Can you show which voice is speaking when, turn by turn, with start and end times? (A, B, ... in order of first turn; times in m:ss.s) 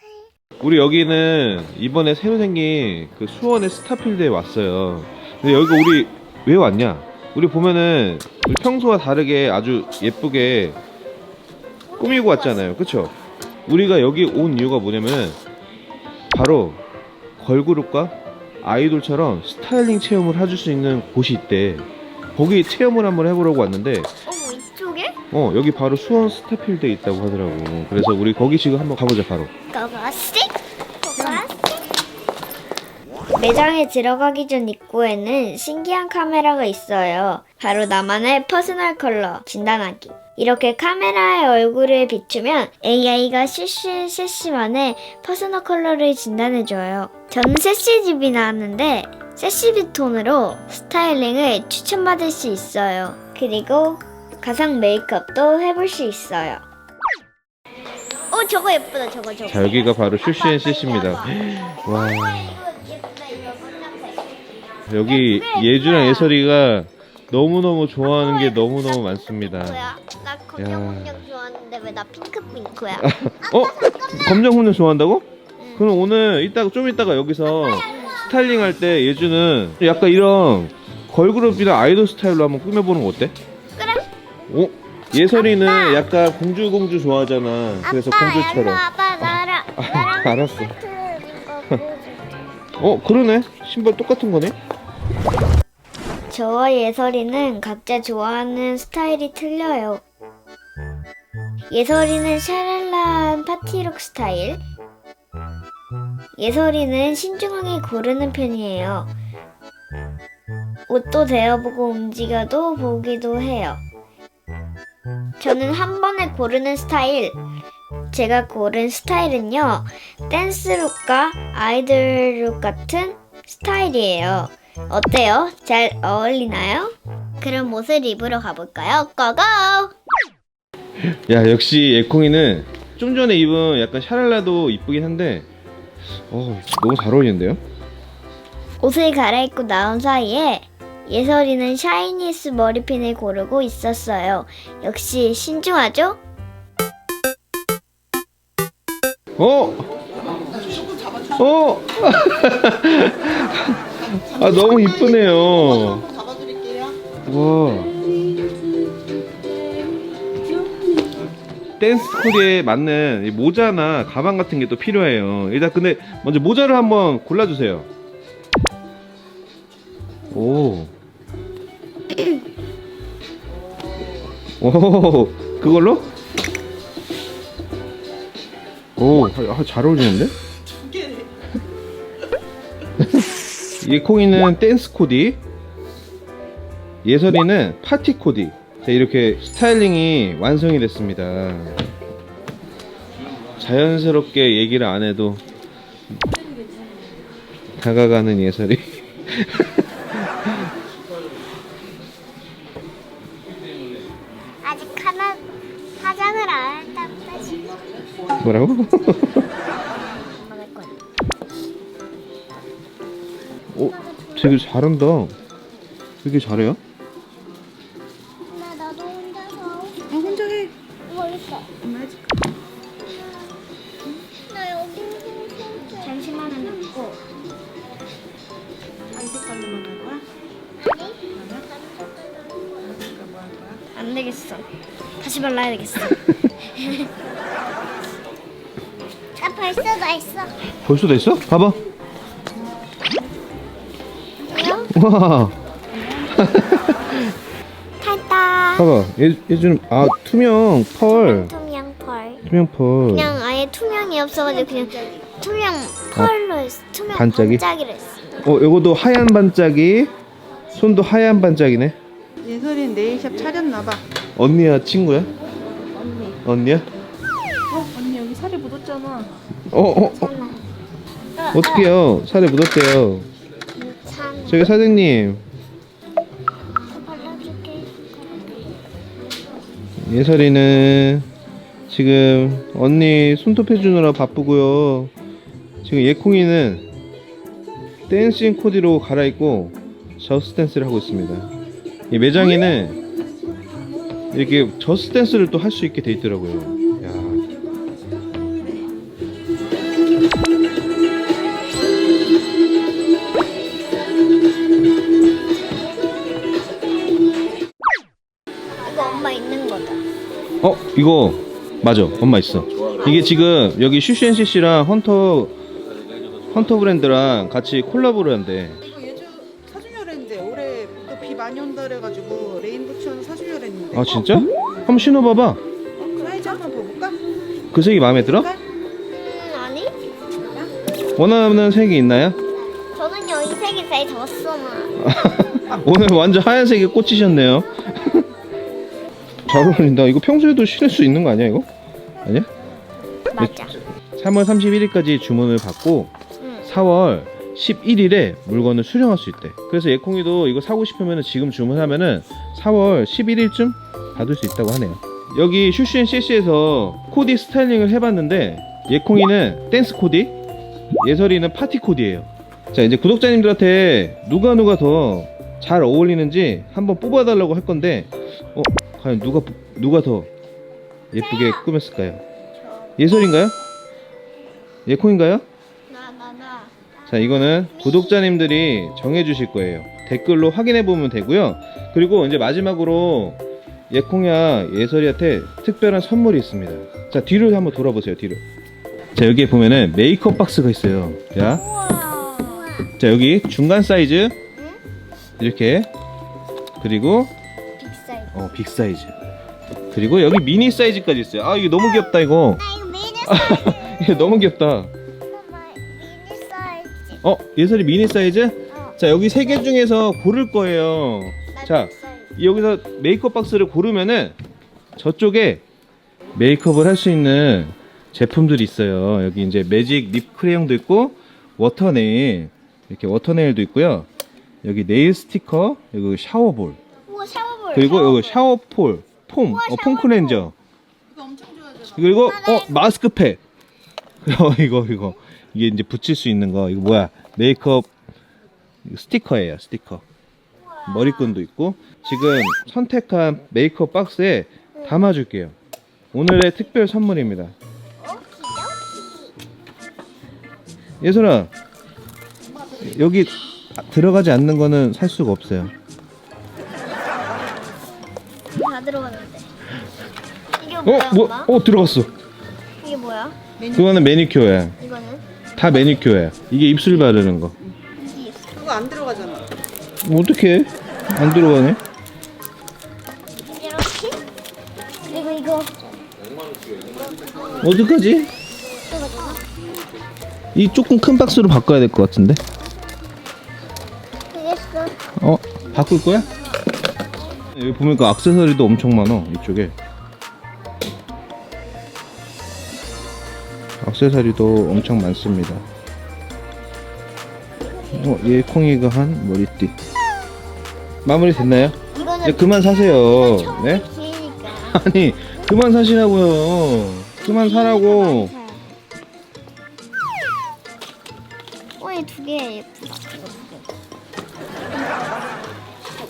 0:00.6-0:10.8 A
0:11.9-0:12.5 B
0:12.0-0:13.1 A
0:13.7-0:15.4 A
0:16.3-0:16.8 A
0:17.4-0:24.1 A
0:24.2-0:25.2 B
0:25.3-0:29.5 A
0:29.7-0:31.8 B
0:33.3-0:56.6 B
0:58.3-1:04.4 B
0:59.5-1:02.6 A
1:04.9-1:09.8 A
1:05.0-1:06.4 B
1:08.0-1:14.5 B
1:10.6-1:11.2 A
1:13.0-1:23.3 A
1:15.6-1:15.9 B
1:17.5-1:18.2 B
1:23.8-1:24.1 B
1:24.5-1:30.8 A
1:25.3-1:26.1 B
1:27.8-1:32.4 B
1:32.8-1:34.6 A
1:36.3-1:40.0 B
1:41.7-1:44.6 B
1:46.4-1:49.1 B
1:50.9-1:53.8 B
1:55.4-1:57.4 B
1:58.1-2:09.9 B
2:11.1-2:15.5 A
2:16.3-2:17.6 A
2:18.8-2:26.2 B
2:29.4-2:29.9 A
2:30.6-2:31.3 C
2:31.3-2:36.1 A
2:34.2-2:37.0 C
2:37.2-2:38.0 A
2:41.8-2:47.9 A
2:50.3-2:50.9 A
2:54.6-2:56.1 A
2:59.0-3:00.3 A
3:03.8-3:05.4 A
3:07.0-3:11.8 A
3:13.6-3:15.4 A
3:17.8-3:20.7 A
3:24.6-3:25.4 B
3:26.0-3:27.7 B
3:28.4-3:29.4 A
3:30.2-3:31.0 B
3:33.7-3:35.3 A
3:33.8-3:34.6 B
3:36.2-3:36.8 A
3:38.5-3:40.4 B
3:40.1-3:40.7 C
3:41.1-3:41.7 B
3:41.8-3:42.4 C
3:44.4-3:47.2 B
3:49.1-3:50.2 C
3:50.8-3:51.2 B
3:51.3-3:51.7 C
3:51.7-3:52.7 B
3:52.8-3:53.8 C
3:53.9-3:54.7 B
3:55.2-3:57.1 B
3:59.4-4:00.6 B
4:00.8-4:01.8 A
4:04.4-4:04.9 B
4:04.9-4:05.6 A
4:06.3-4:07.3 A
4:08.0-4:09.0 B
4:08.8-4:11.5 A
4:11.0-4:12.4 B
4:12.4-4:13.4 A
4:13.1-4:18.4 B
4:14.7-4:15.2 C
4:17.1-4:17.6 A
4:18.4-4:20.1 A
4:20.7-4:22.0 A
4:22.4-4:24.0 C
4:24.4-4:25.3 A
4:26.0-4:26.4 C
4:26.4-4:26.9 A
4:27.7-4:29.3 C
4:29.7-4:30.3 A
4:30.1-4:30.6 B
4:31.4-4:31.9 B
4:31.5-4:33.3 A
4:33.8-4:34.7 B
4:34.5-4:35.4 A
4:36.9-4:38.7 B
4:40.0-4:41.3 A
4:41.9-4:45.1 A
4:45.8-4:46.9 A
4:48.1-4:51.5 A
4:52.1-4:53.0 A
4:54.3-4:57.4 A
5:08.8-5:10.0 B
5:10.6-5:15.5 A
5:13.0-5:13.3 B
5:16.5-5:18.8 A
5:18.8-5:24.2 C
5:23.9-5:25.6 A
5:26.0-5:27.2 C
5:27.7-5:28.5 A
5:28.3-5:28.6 C
5:29.1-5:29.9 B
5:30.4-5:30.7 C
5:31.2-5:32.4 A
5:32.7-5:35.0 B
5:35.0-5:38.3 A
5:39.4-5:41.7 A
5:42.2-5:42.5 A
5:43.3-5:43.8 B
5:43.4-5:46.1 A
5:46.4-5:46.7 B
5:46.6-6:00.3 A
6:01.0-6:10.3 A
6:11.1-6:12.2 A
6:11.1-6:11.7 B
6:12.6-6:12.9 B
6:13.0-6:13.6 A
6:14.8-6:15.4 A
6:15.9-6:18.2 B
6:17.1-6:28.4 A
6:29.1-6:31.6 A
6:31.5-6:32.9 B
6:33.0-6:34.4 A
6:34.5-6:34.8 B
6:35.4-6:35.9 A
6:36.8-6:37.3 A
6:37.8-6:38.3 B
6:38.3-6:39.1 A
6:39.9-6:42.6 A
6:41.8-6:44.2 B
6:43.2-6:44.9 A
6:45.3-6:47.2 B
6:47.2-6:54.4 A
6:48.7-6:49.0 B
6:51.5-6:52.3 B
6:55.0-6:55.6 A
6:56.3-7:04.1 A
7:04.6-7:06.8 A
7:07.1-7:08.4 B
7:07.7-7:10.5 A
7:09.4-7:10.5 B
7:11.1-7:12.3 C
7:11.9-7:13.4 A
7:12.2-7:12.8 B
7:14.2-7:17.9 A
7:18.8-7:20.0 A
7:20.7-7:21.4 B
7:20.8-7:25.5 A
7:24.7-7:25.1 B
7:26.1-7:27.5 A
7:28.0-7:29.3 B
7:31.0-7:31.5 A
7:32.8-7:35.7 A
7:37.2-7:37.5 B
7:38.5-7:39.5 B
7:40.6-7:41.5 B
7:40.8-7:42.1 A
7:42.8-7:43.4 B
7:43.7-7:44.8 A
7:44.8-7:45.2 B
7:45.6-7:47.5 A
7:48.0-7:48.4 B
7:48.6-7:49.4 C
7:50.0-7:51.8 A
7:53.4-7:54.2 B
7:55.1-7:55.7 B
7:57.2-7:57.7 B
7:57.6-7:58.3 A
7:58.8-7:59.4 B
8:00.5-8:02.4 A
8:04.3-8:05.0 B
8:05.2-8:06.3 A
8:07.5-8:09.7 A
8:13.8-8:15.6 A
8:17.6-8:18.3 B
8:17.9-8:19.7 A
8:21.0-8:23.8 A
8:21.9-8:24.8 B
8:24.7-8:28.3 A
8:27.2-8:28.6 B
8:31.8-8:33.6 B